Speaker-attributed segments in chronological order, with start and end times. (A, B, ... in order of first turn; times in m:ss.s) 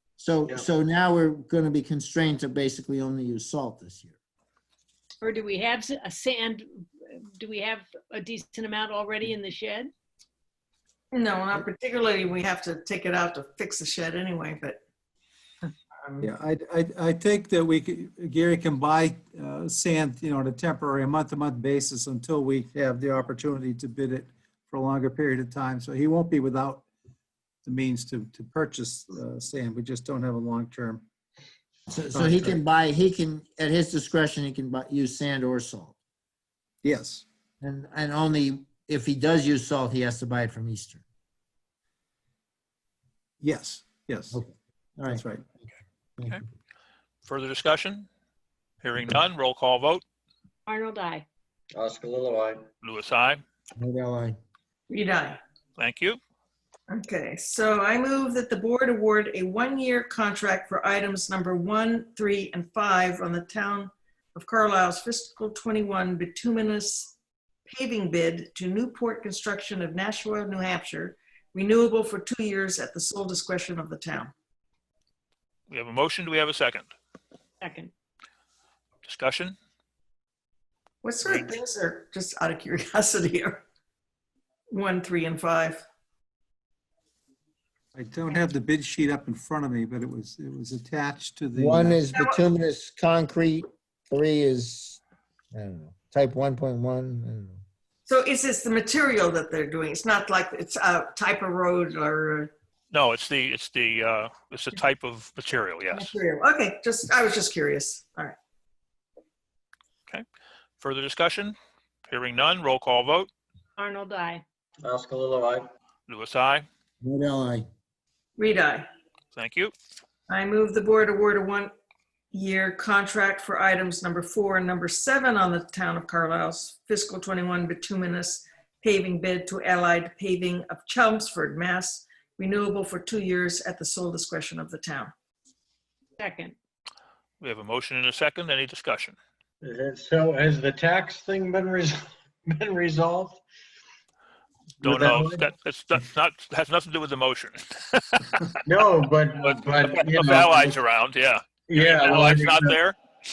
0:00.2-0:04.2 A
0:05.2-0:06.6 B
0:07.4-0:09.9 B
0:11.1-0:14.8 C
0:16.2-0:26.8 D
0:27.6-0:31.0 D
0:31.9-0:36.0 A
0:32.1-0:32.6 D
0:36.8-0:37.2 D
0:37.6-0:41.0 A
0:43.4-0:44.4 D
0:44.3-0:45.4 A
0:45.1-0:45.4 D
0:47.2-0:48.1 E
0:48.8-0:50.0 E
0:50.7-0:51.2 B
0:51.7-0:52.6 F
0:52.8-0:53.4 E
0:53.8-0:54.4 A
0:54.9-0:55.4 C
0:55.8-0:56.2 E
0:56.9-1:07.1 C
1:07.7-1:14.3 C
1:15.7-1:16.9 E
1:17.6-1:17.9 B
1:19.0-1:19.6 E
1:21.0-1:23.6 C
1:24.7-1:25.8 C
1:28.0-1:32.0 D
1:31.6-1:35.0 A
1:35.5-1:37.6 A
1:38.1-1:42.5 C
1:42.9-1:46.1 E
1:45.9-1:48.4 C
1:50.8-1:51.6 E
1:52.1-1:53.3 E
1:53.8-1:54.4 B
1:54.8-1:55.7 F
1:56.1-1:56.7 E
1:57.0-1:57.7 A
1:58.4-1:58.9 C
1:59.3-1:59.7 E
2:00.3-2:01.7 C
2:02.3-2:15.1 C
2:16.2-2:16.6 B
2:17.4-2:19.2 E
2:19.6-2:23.4 F
2:24.8-2:25.5 F
2:24.8-2:28.5 E
2:28.7-2:30.8 F
2:29.4-2:33.0 E
2:31.7-2:32.8 F